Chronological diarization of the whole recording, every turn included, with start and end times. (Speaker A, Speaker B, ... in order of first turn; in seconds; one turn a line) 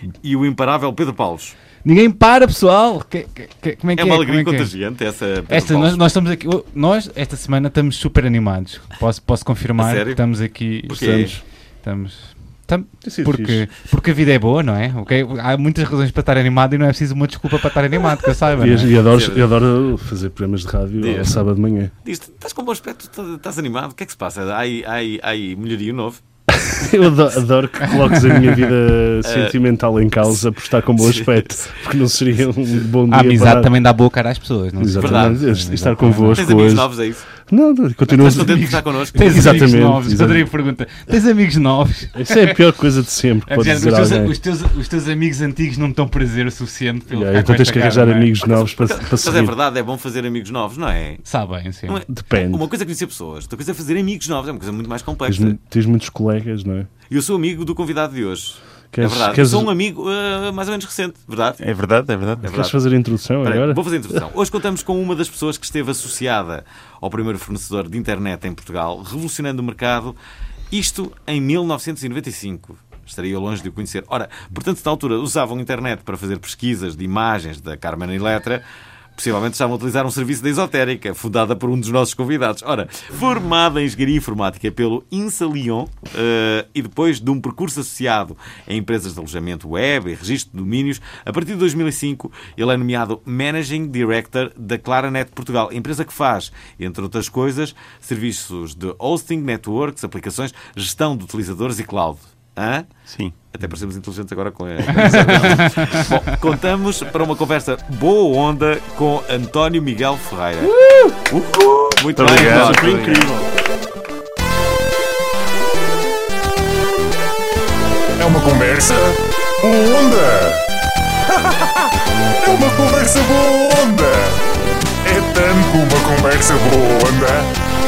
Speaker A: 0.2-1.5
Speaker B: 1.8-4.7
Speaker A: 4.0-6.0
Speaker B: 5.5-18.9
Speaker A: 9.8-10.2
Speaker A: 10.9-11.4
Speaker C: 13.0-13.7
Speaker C: 18.6-21.9
Speaker A: 19.0-19.5
Speaker A: 21.0-21.4
Speaker A: 22.0-26.9
Speaker C: 26.5-33.7
Speaker B: 27.9-28.5
Speaker A: 29.2-29.6
Speaker A: 30.9-31.7
Speaker B: 33.1-36.5
Speaker C: 34.8-40.5
Speaker A: 35.0-35.4
Speaker A: 36.3-37.2
Speaker A: 38.2-39.6
Speaker B: 38.2-42.6
Speaker C: 42.1-44.3
Speaker B: 43.5-48.3
Speaker C: 47.1-49.5
Speaker A: 48.4-51.2
Speaker B: 51.2-52.0
Speaker A: 51.9-55.5
Speaker C: 52.1-52.6
Speaker C: 55.2-56.9
Speaker A: 57.1-61.6
Speaker C: 58.9-59.7
Speaker D: 61.6-62.7
Speaker C: 62.4-63.8
Speaker A: 62.4-62.7
Speaker A: 63.4-70.2
Speaker A: 70.7-78.6
Speaker A: 79.2-102.9
Speaker D: 103.1-103.3
Speaker A: 103.5-110.7
Speaker B: 104.9-106.1
Speaker A: 111.3-113.3
Speaker D: 112.2-113.3
Speaker C: 112.4-113.4
Speaker E: 118.2-120.6
Speaker E: 121.3-121.8
Speaker E: 122.4-124.5
Speaker E: 125.0-127.5